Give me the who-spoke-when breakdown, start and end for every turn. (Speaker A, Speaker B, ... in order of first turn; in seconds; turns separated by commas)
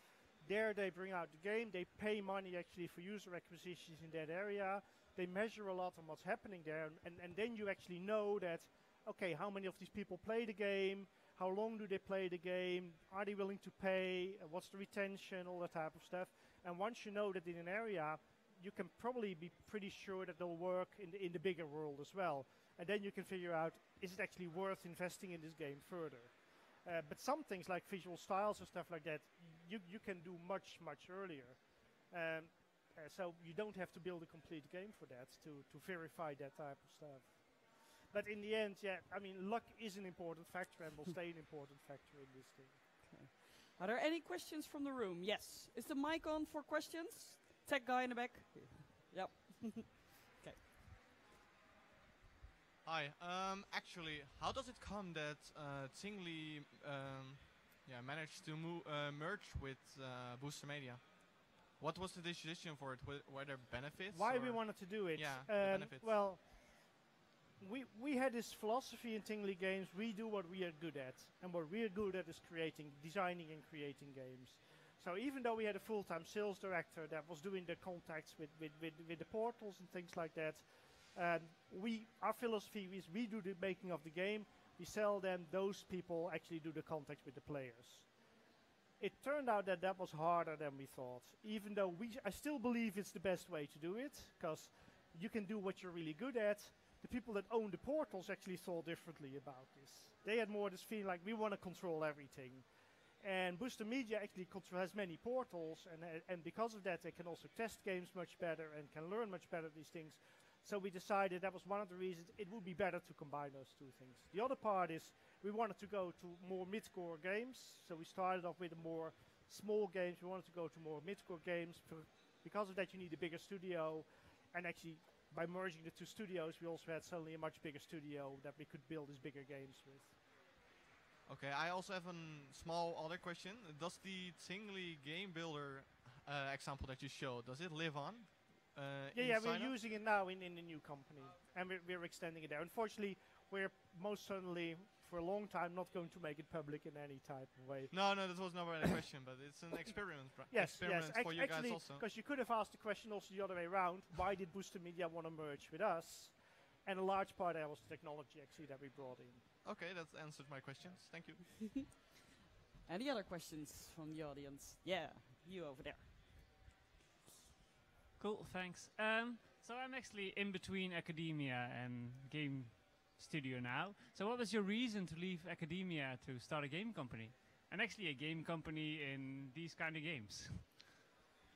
Speaker A: 0.4-31.6, Speaker A: 32.1-42.8, Speaker B: 43.0-50.6, Speaker C: 52.8-66.1, Speaker A: 64.1-66.9, Speaker A: 67.6-88.1, Speaker A: 89.0-102.6, Speaker A: 103.2-130.2, Speaker C: 131.3-139.7, Speaker A: 139.1-147.9, Speaker C: 147.9-152.0, Speaker A: 150.5-159.4, Speaker C: 159.6-161.8, Speaker B: 162.9-166.1, Speaker D: 168.2-180.8